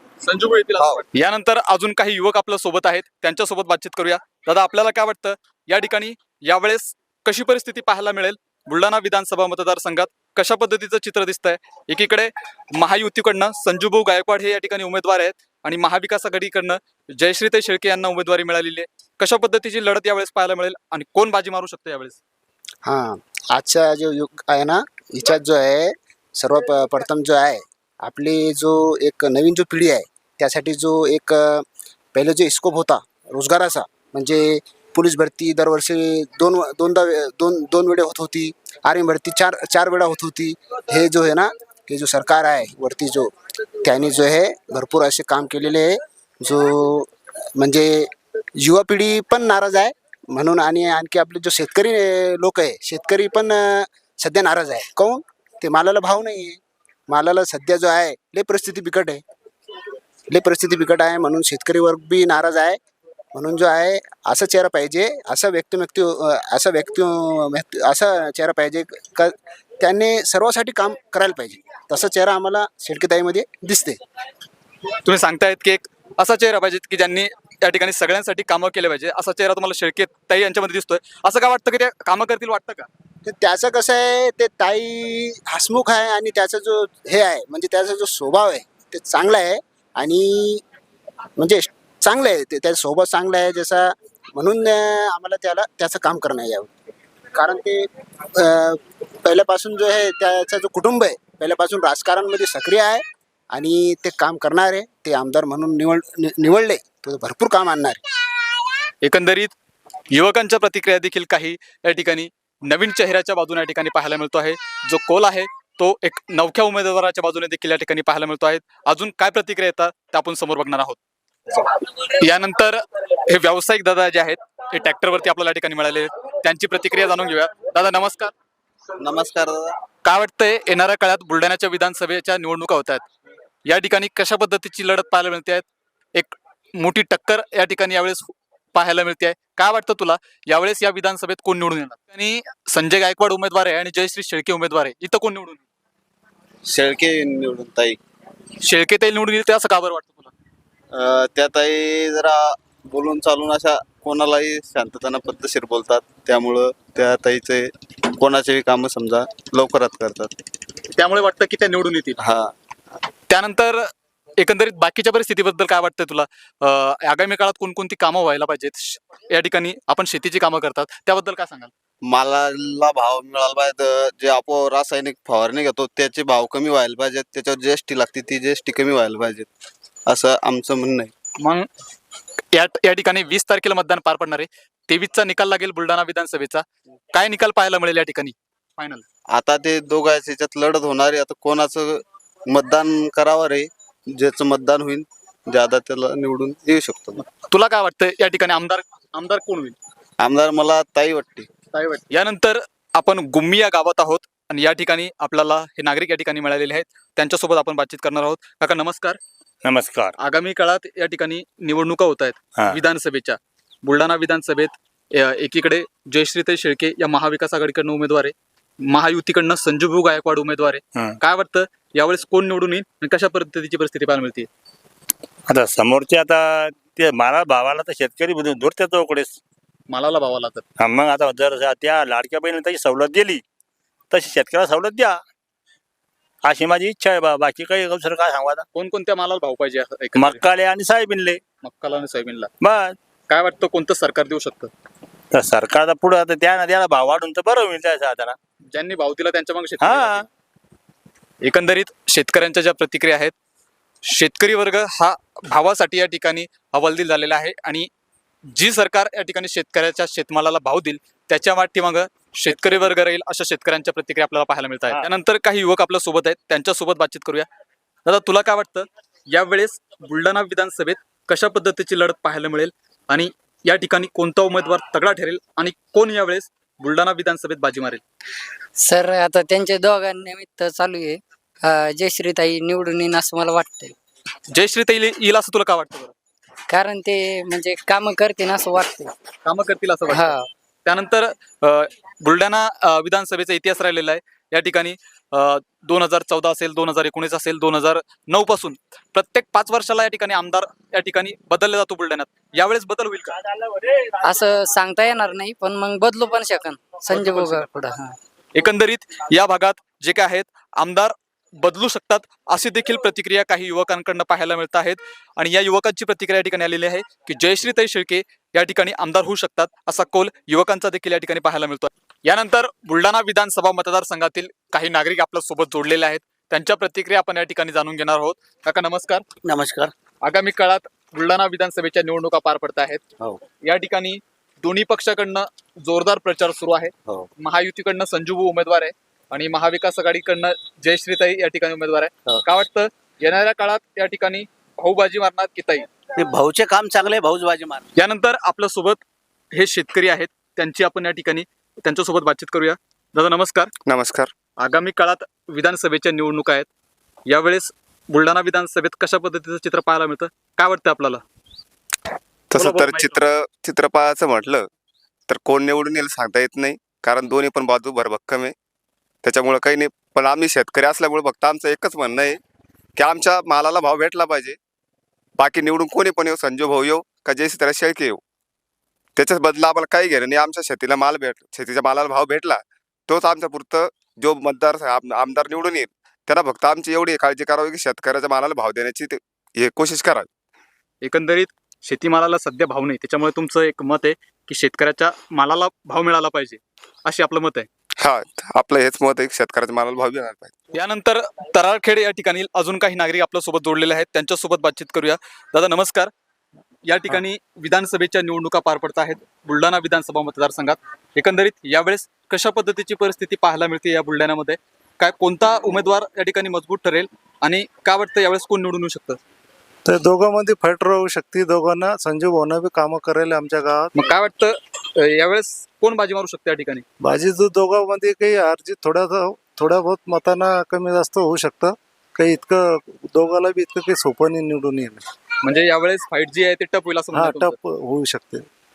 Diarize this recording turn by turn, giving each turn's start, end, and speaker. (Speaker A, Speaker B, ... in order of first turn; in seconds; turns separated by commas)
Speaker A: 0.2-22.2, Speaker B: 0.8-1.0, Speaker C: 22.8-59.2, Speaker C: 60.3-62.8, Speaker C: 63.3-74.0, Speaker A: 75.0-82.9, Speaker C: 83.2-90.6, Speaker C: 91.4-96.7, Speaker C: 97.3-108.0, Speaker A: 109.0-109.5, Speaker A: 110.1-121.0, Speaker A: 121.6-128.3, Speaker B: 129.0-129.7, Speaker A: 130.0-133.0, Speaker A: 133.7-145.6, Speaker B: 146.7-148.0, Speaker A: 148.6-150.3, Speaker B: 150.9-160.3, Speaker A: 160.9-162.2, Speaker B: 162.2-162.5, Speaker A: 163.3-163.9, Speaker A: 164.4-171.7, Speaker B: 172.1-179.5, Speaker B: 180.1-181.1, Speaker A: 181.4-181.7, Speaker A: 182.5-189.0, Speaker B: 189.3-197.2, Speaker A: 197.3-199.8, Speaker B: 200.2-201.5, Speaker A: 201.7-209.2, Speaker D: 209.6-210.1, Speaker A: 210.2-218.3, Speaker A: 218.8-224.5, Speaker D: 225.5-229.4, Speaker A: 229.9-230.6, Speaker D: 230.8-233.4, Speaker D: 234.1-235.2, Speaker D: 236.4-238.6, Speaker A: 238.7-240.4, Speaker D: 240.1-241.4, Speaker A: 241.6-242.5, Speaker D: 242.6-243.0, Speaker A: 243.3-244.7, Speaker D: 245.3-248.4, Speaker A: 248.7-250.2, Speaker D: 249.8-250.2, Speaker A: 251.4-253.3, Speaker A: 254.1-257.9, Speaker A: 258.5-267.4, Speaker A: 268.1-278.0, Speaker E: 278.8-283.9, Speaker A: 284.5-286.1, Speaker E: 286.7-289.1, Speaker A: 289.4-290.3, Speaker E: 290.1-290.5, Speaker A: 290.8-303.4, Speaker E: 304.1-308.2, Speaker A: 307.1-307.7, Speaker A: 308.5-329.2, Speaker F: 329.4-329.9, Speaker A: 330.2-333.0, Speaker A: 333.6-345.9, Speaker F: 346.1-347.8, Speaker A: 348.0-349.0, Speaker A: 349.5-353.7, Speaker G: 353.9-354.3, Speaker A: 354.6-356.7, Speaker A: 357.3-361.2, Speaker G: 362.5-364.6, Speaker A: 362.5-363.2, Speaker G: 365.3-368.5, Speaker G: 369.2-372.4, Speaker G: 373.0-374.6, Speaker G: 375.4-378.2, Speaker G: 379.2-390.3, Speaker A: 391.0-397.7, Speaker G: 398.0-400.5, Speaker A: 400.7-406.1, Speaker A: 406.9-419.2, Speaker H: 419.8-423.9, Speaker A: 423.9-426.8, Speaker H: 427.0-435.0, Speaker A: 435.4-437.6, Speaker H: 437.1-438.5